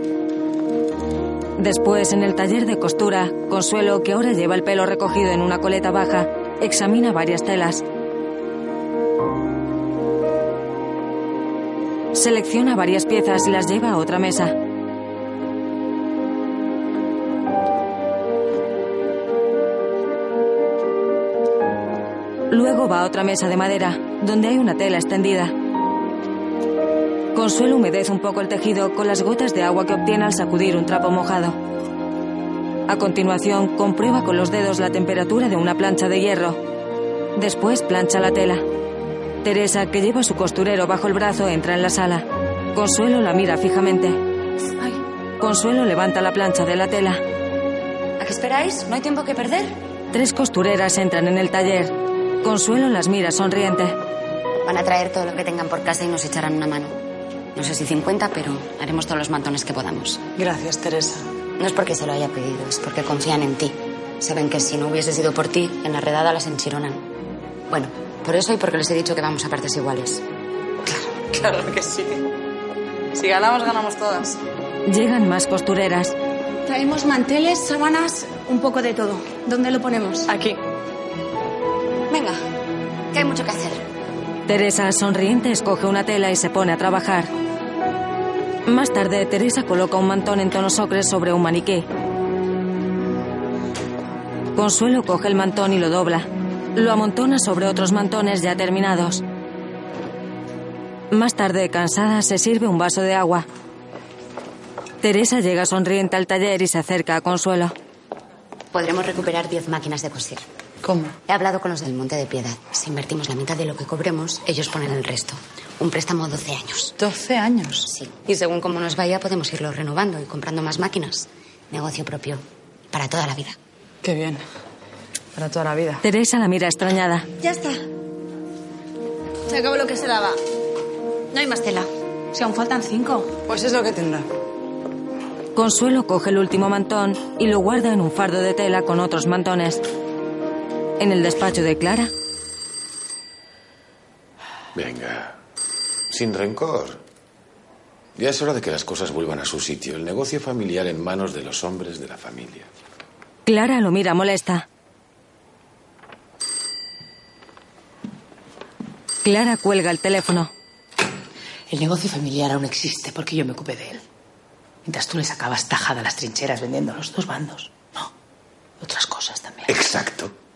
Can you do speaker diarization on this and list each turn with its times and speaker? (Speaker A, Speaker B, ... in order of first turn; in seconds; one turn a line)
Speaker A: 1.6-7.8
Speaker A: 12.1-14.6
Speaker A: 22.5-25.5
Speaker A: 27.3-31.6
Speaker A: 32.9-36.6
Speaker A: 37.4-38.6
Speaker A: 39.4-44.2
Speaker A: 45.4-47.2
Speaker B: 48.2-49.8
Speaker A: 50.1-54.0
Speaker B: 54.6-57.0
Speaker B: 57.5-60.2
Speaker C: 60.4-61.3
Speaker B: 61.6-67.0
Speaker B: 67.7-70.2
Speaker C: 70.9-72.3
Speaker C: 73.1-74.4
Speaker A: 74.9-76.1
Speaker C: 80.3-80.6
Speaker B: 82.1-82.4
Speaker B: 83.1-83.8
Speaker A: 84.5-87.3
Speaker A: 88.7-91.9
Speaker A: 94.5-99.2
Speaker A: 101.1-103.5
Speaker A: 105.0-107.7
Speaker B: 108.7-110.4
Speaker C: 110.8-111.1
Speaker B: 111.3-116.9
Speaker C: 117.0-117.9
Speaker B: 117.9-123.5
Speaker C: 124.0-124.4
Speaker C: 125.3-126.0
Speaker A: 126.0-127.3
Speaker D: 129.6-130.2
Speaker D: 131.3-133.2
Speaker C: 133.4-134.3
Speaker A: 135.5-139.8
Speaker A: 141.0-142.1
Speaker E: 144.8-145.4
Speaker E: 146.1-147.0
Speaker E: 148.2-152.7
Speaker A: 153.4-154.7
Speaker A: 159.2-160.5
Speaker F: 161.7-164.0
Speaker F: 164.8-168.1
Speaker F: 168.8-169.7
Speaker E: 169.7-170.3